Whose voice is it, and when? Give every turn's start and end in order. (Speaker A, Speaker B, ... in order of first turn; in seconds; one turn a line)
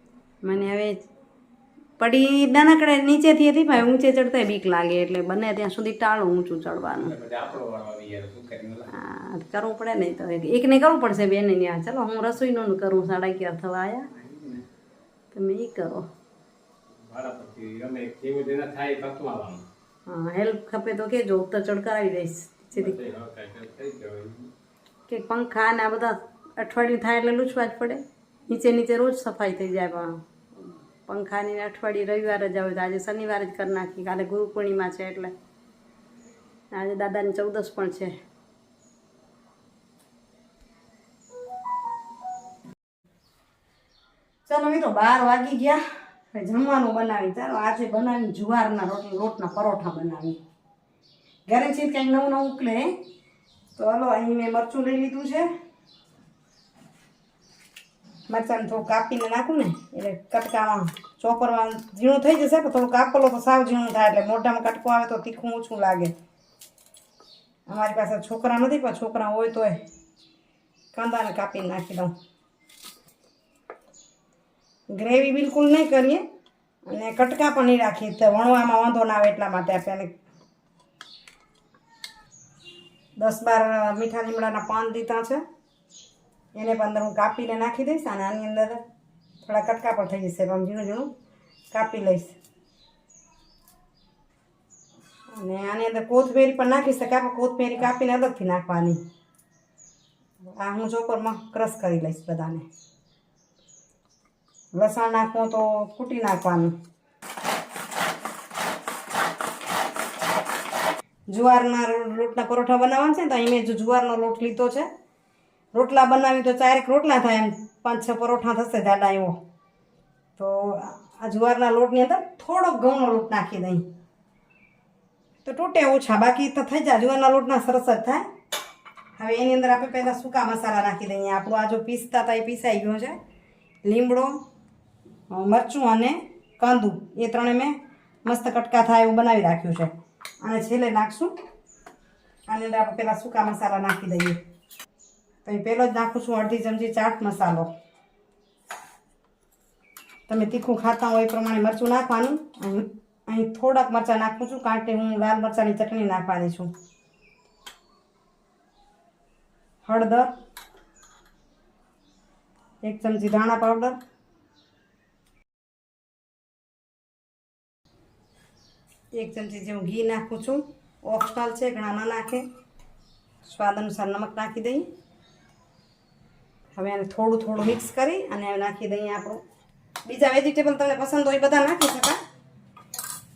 Speaker A: 0.4-1.0
Speaker A: 2.0-7.1
Speaker B: 6.9-8.9
Speaker A: 8.9-14.1
Speaker B: 14.1-14.7
Speaker A: 15.3-16.1
Speaker B: 17.1-19.6
Speaker A: 20.1-22.9
Speaker B: 22.7-24.5
Speaker A: 25.1-35.3
Speaker A: 36.7-38.1
Speaker A: 44.5-45.8
Speaker A: 46.3-50.4
Speaker A: 51.5-52.9
Speaker A: 53.8-55.5
Speaker A: 58.3-66.1
Speaker A: 67.7-69.8
Speaker A: 70.9-72.1
Speaker A: 74.9-76.2
Speaker A: 76.8-80.1
Speaker A: 83.2-85.4
Speaker A: 86.5-88.8
Speaker A: 89.4-91.1
Speaker A: 91.7-92.3
Speaker A: 95.3-99.0
Speaker A: 100.5-102.6
Speaker A: 104.7-106.7
Speaker A: 111.3-114.9
Speaker A: 115.7-119.4
Speaker A: 120.4-123.8
Speaker A: 125.4-128.2
Speaker A: 129.2-133.1
Speaker A: 133.8-134.4
Speaker A: 135.3-137.7
Speaker A: 138.2-141.3
Speaker A: 142.5-144.4
Speaker A: 145.4-147.7
Speaker A: 150.3-156.7
Speaker A: 159.8-160.3
Speaker A: 162.8-164.0
Speaker A: 169.2-172.4
Speaker A: 173.4-174.9
Speaker A: 176.7-179.4
Speaker A: 180.1-182.2